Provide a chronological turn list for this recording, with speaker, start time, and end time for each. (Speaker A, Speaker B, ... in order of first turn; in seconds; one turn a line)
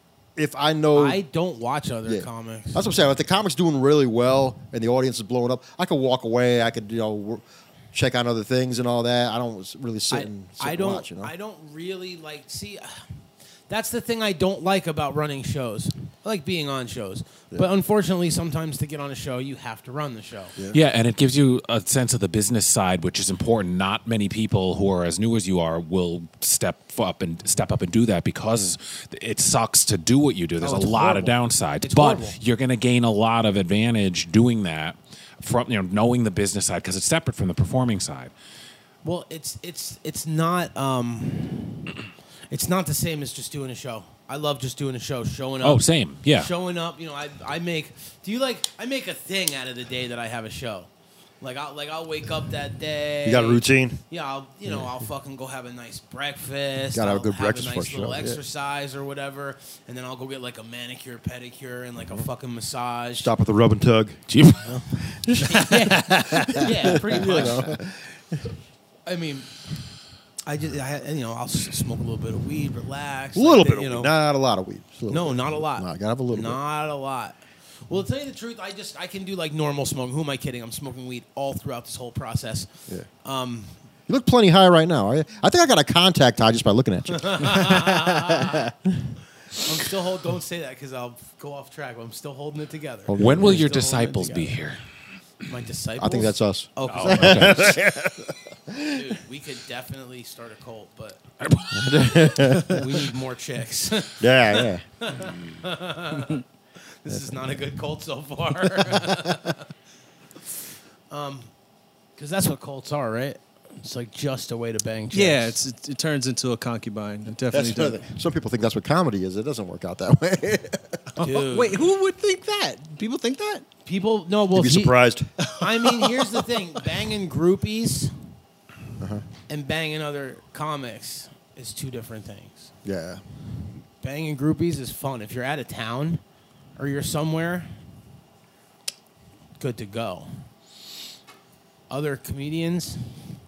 Speaker A: 0.4-1.2
Speaker B: 0.9-2.9
Speaker A: 2.1-11.3
Speaker B: 10.1-13.0
Speaker B: 13.7-20.6
Speaker C: 20.7-38.3
Speaker B: 30.6-32.4
Speaker B: 39.0-41.9
Speaker B: 42.5-50.9
Speaker C: 45.6-46.5
Speaker B: 51.4-63.3
Speaker A: 53.2-54.0
Speaker A: 54.6-55.0
Speaker A: 56.9-58.4
Speaker A: 63.2-64.2
Speaker C: 64.3-64.7
Speaker B: 64.6-67.7
Speaker A: 65.2-68.4
Speaker B: 69.1-69.5
Speaker B: 70.5-74.1
Speaker A: 73.4-76.6
Speaker B: 75.1-82.7
Speaker B: 83.2-83.7
Speaker A: 84.1-88.9
Speaker B: 87.1-88.7
Speaker B: 89.5-94.6
Speaker A: 93.1-93.7
Speaker C: 93.2-94.8
Speaker B: 95.5-97.7
Speaker A: 96.0-99.0
Speaker C: 96.9-97.8
Speaker B: 98.8-101.2
Speaker C: 101.4-102.1
Speaker A: 101.7-102.8
Speaker B: 102.4-109.7
Speaker A: 104.2-104.8
Speaker B: 111.1-111.5
Speaker B: 112.2-115.6
Speaker D: 115.1-118.1
Speaker A: 117.5-121.0
Speaker B: 121.2-121.8
Speaker D: 121.2-123.6
Speaker B: 123.8-125.0
Speaker A: 124.5-125.3
Speaker D: 125.5-126.3
Speaker B: 125.6-128.1
Speaker A: 129.0-129.2
Speaker B: 129.5-132.7
Speaker A: 132.8-133.2
Speaker B: 134.0-136.2
Speaker B: 136.8-137.7
Speaker B: 139.6-140.3
Speaker B: 141.9-143.1